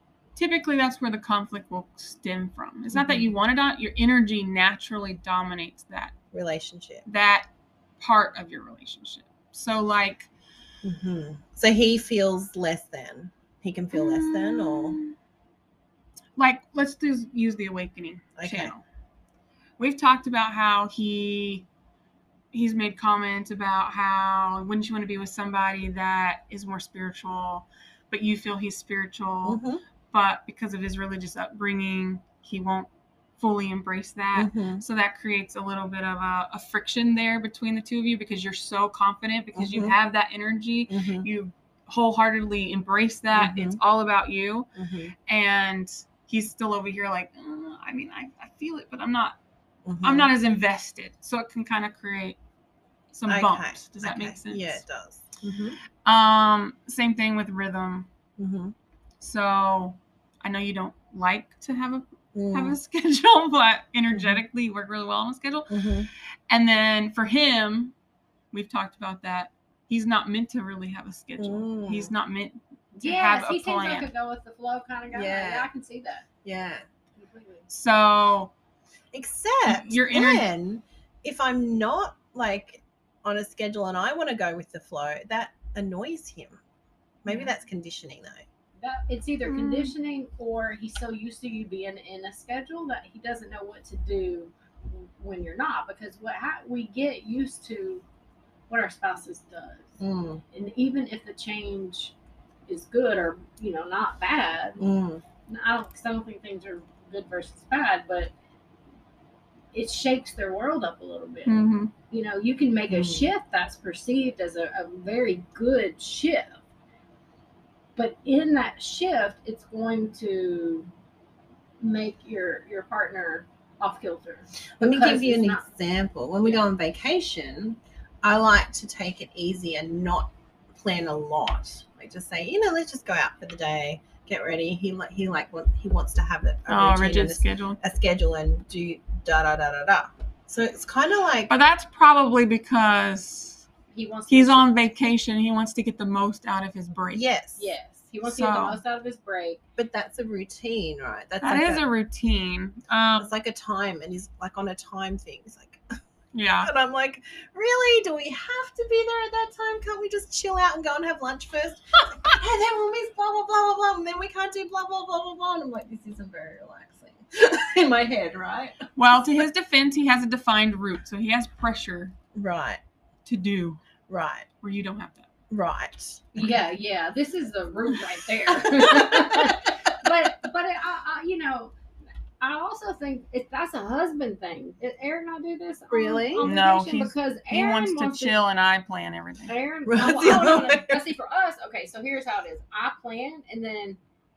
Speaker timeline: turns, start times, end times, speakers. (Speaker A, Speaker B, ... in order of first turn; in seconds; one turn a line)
Speaker A: 0.4-6.1
Speaker B: 2.9-3.3
Speaker B: 6.3-7.0
Speaker A: 7.1-7.5
Speaker A: 8.0-10.3
Speaker B: 10.8-15.0
Speaker A: 13.9-15.1
Speaker A: 16.4-18.8
Speaker B: 18.4-18.7
Speaker A: 19.8-21.6
Speaker A: 22.5-29.6
Speaker B: 29.4-29.8
Speaker A: 30.1-44.7
Speaker B: 34.4-34.8
Speaker B: 39.5-40.0
Speaker B: 40.9-41.3
Speaker B: 43.3-43.8
Speaker B: 44.7-45.1
Speaker A: 45.3-49.4
Speaker B: 49.9-50.3
Speaker A: 50.0-52.4
Speaker A: 53.1-54.8
Speaker B: 53.3-55.8
Speaker A: 56.0-58.1
Speaker B: 58.4-58.7
Speaker A: 59.2-65.7
Speaker B: 62.4-62.8
Speaker B: 64.1-64.4
Speaker B: 65.7-66.1
Speaker A: 66.5-67.9
Speaker A: 68.5-74.1
Speaker B: 71.4-72.1
Speaker C: 73.0-76.2
Speaker B: 75.1-75.7
Speaker B: 76.4-76.8
Speaker C: 77.2-77.7
Speaker A: 77.7-78.5
Speaker B: 79.1-86.6
Speaker A: 79.7-80.5
Speaker B: 87.2-88.4
Speaker A: 87.3-87.5
Speaker C: 88.8-98.0
Speaker A: 89.4-89.9
Speaker C: 98.7-100.0
Speaker B: 100.0-100.4
Speaker C: 100.5-102.1
Speaker C: 102.7-104.9
Speaker B: 104.8-105.2
Speaker C: 105.5-108.3
Speaker C: 109.7-116.6
Speaker A: 111.5-111.9
Speaker B: 112.9-113.3
Speaker C: 118.0-120.9
Speaker C: 121.8-125.6
Speaker B: 124.8-141.5
Speaker A: 136.7-137.8
Speaker A: 141.5-143.6
Speaker C: 143.9-144.7
Speaker A: 144.3-147.2
Speaker B: 147.1-147.7
Speaker C: 147.6-149.6
Speaker A: 148.2-148.8
Speaker B: 149.8-151.8
Speaker A: 151.4-153.3
Speaker B: 153.2-155.9
Speaker A: 156.3-156.7
Speaker B: 156.6-168.9
Speaker A: 168.9-172.1
Speaker B: 172.3-172.8
Speaker A: 173.2-173.8
Speaker B: 174.1-174.5
Speaker A: 174.6-175.3
Speaker B: 175.5-176.6
Speaker C: 176.4-181.7
Speaker B: 178.5-179.5
Speaker C: 182.4-188.3
Speaker B: 185.9-186.5
Speaker A: 186.4-189.5
Speaker C: 189.5-194.0
Speaker B: 189.9-191.0